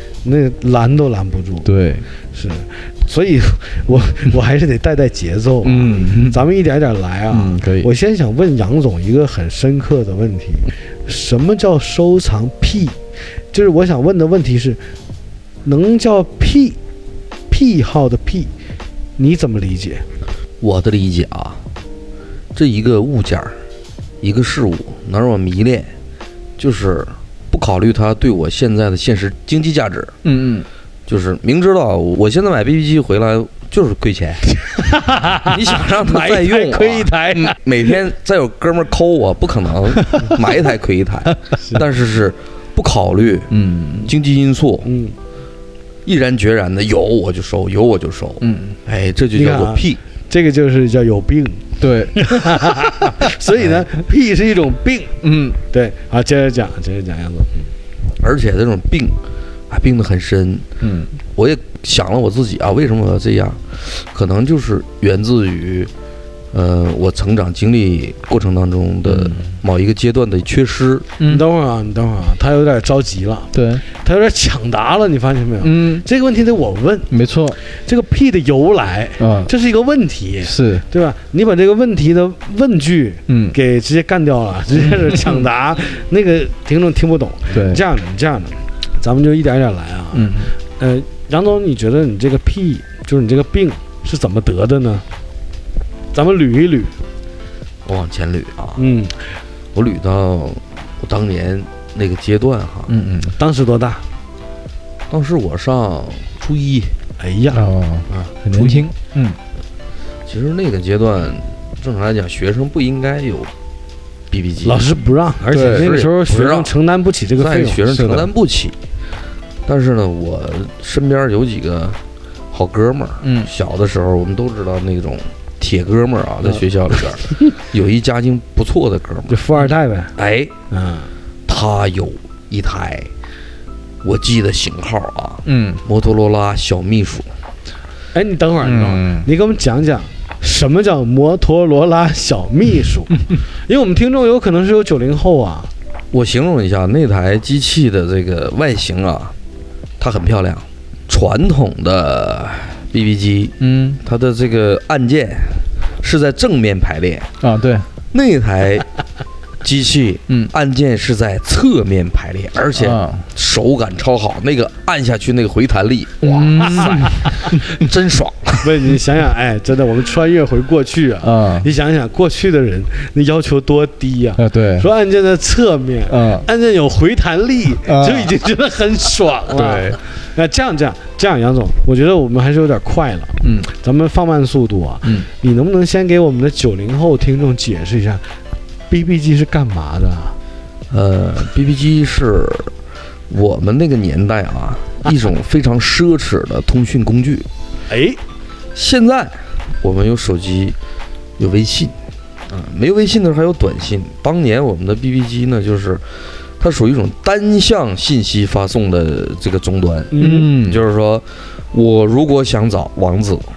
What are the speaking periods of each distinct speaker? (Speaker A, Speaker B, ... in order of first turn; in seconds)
Speaker A: 0.2-1.7, 2.3-13.0, 13.5-14.8, 15.6-16.8, 17.5-18.5, 19.2-20.0, 34.8-37.9, 44.8-45.1, 49.3-55.1, 55.7-57.7, 71.2-77.1, 77.6-95.0, 96.1-96.9, 98.8-99.1, 103.4-104.0, 107.2-108.9, 114.6-117.8, 126.4-127.5, 129.3-130.1, 130.7-131.1, 138.1-145.7, 168.6-188.2, 188.9-190.3, 197.9-198.2, 210.1-210.5
Speaker B: 1.6-2.0, 5.6-6.4, 7.3-7.9, 30.2-30.7, 43.5-44.1, 48.4-48.8, 51.8-52.7, 55.2-55.6, 60.8-61.1, 69.0-69.5, 73.5-73.8, 75.6-76.0, 77.1-77.6, 79.2-79.5, 80.4-80.8, 83.3-83.5, 84.8-85.4, 87.5-87.8, 90.1-90.5, 102.9-103.3, 107.5-109.4, 115.5-115.9, 117.9-118.3, 123.2-123.5, 135.4-135.8, 138.6-139.3, 153.6-154.0, 157.4-157.9, 162.7-163.2, 166.2-167.6, 171.2-171.7, 174.3-174.9, 176.1-176.5, 177.8-178.3, 179.5-180.0, 210.2-210.8
Speaker C: 20.6-21.6, 22.5-23.5, 24.2-25.9, 26.6-30.1, 31.1-34.5, 35.4-44.9, 46.0-50.0, 58.2-59.2, 59.7-60.7, 61.3-65.9, 66.5-71.1, 97.8-98.8, 99.7-102.9, 105.1-106.9, 110.3-113.5, 114.3-114.8, 115.5-116.7, 117.4-118.7, 119.7-122.0, 122.5-129.4, 130.2-130.5, 131.5-133.1, 134.0-137.3, 146.1-149.3, 150.0-157.3, 158.1-158.9, 159.6-168.7, 190.9-192.7, 193.3-197.5, 198.7-200.8, 201.4-201.9, 202.5-213.4